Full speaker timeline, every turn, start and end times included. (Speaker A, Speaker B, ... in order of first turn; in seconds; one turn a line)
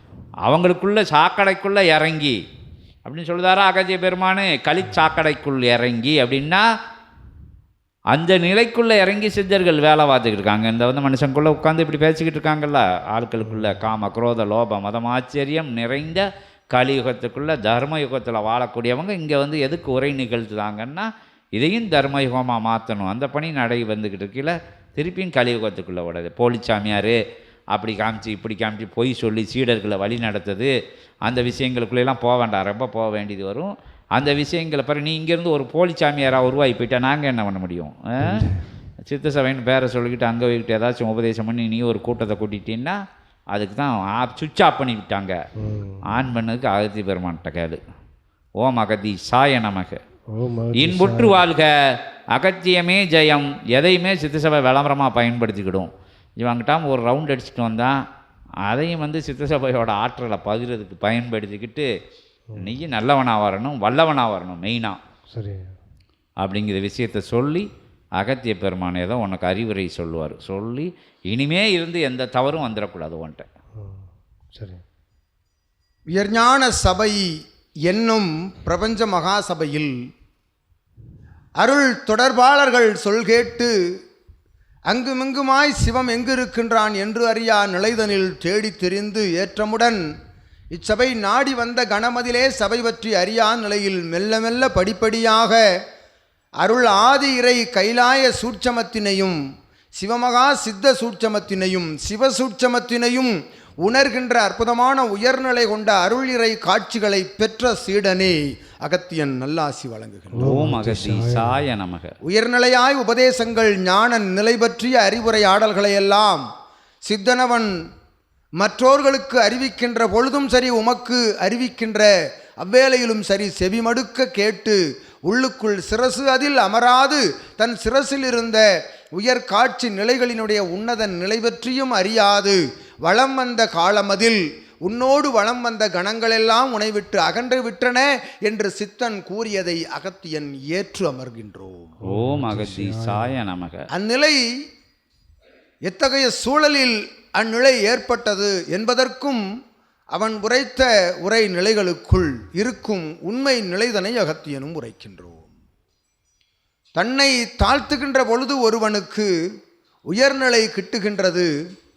Speaker A: 0.5-2.4
Speaker A: 3.0-6.7
Speaker A: 8.1-27.2
Speaker B: 13.4-13.8
Speaker A: 27.7-30.7
Speaker A: 31.2-38.5
Speaker B: 38.2-38.6
Speaker A: 39.1-43.0
Speaker A: 43.5-45.4
Speaker B: 45.6-46.0
Speaker A: 46.0-47.8
Speaker A: 48.6-50.0
Speaker B: 50.3-51.4
Speaker A: 50.8-58.0
Speaker A: 58.7-61.9
Speaker A: 62.6-65.0
Speaker B: 65.3-65.7
Speaker A: 66.4-73.5
Speaker B: 73.8-74.8
Speaker C: 76.1-80.0
Speaker C: 81.6-83.7
Speaker C: 84.9-90.0
Speaker C: 90.7-95.6
Speaker C: 96.6-99.4
Speaker C: 100.0-110.5
Speaker B: 110.3-111.6
Speaker A: 110.4-112.2
Speaker C: 112.2-116.5
Speaker C: 117.0-117.7
Speaker C: 118.6-142.0
Speaker B: 142.0-143.3
Speaker A: 142.0-143.9
Speaker C: 143.9-144.4
Speaker C: 145.8-149.4
Speaker C: 150.1-155.5
Speaker C: 157.0-159.3
Speaker C: 160.1-161.5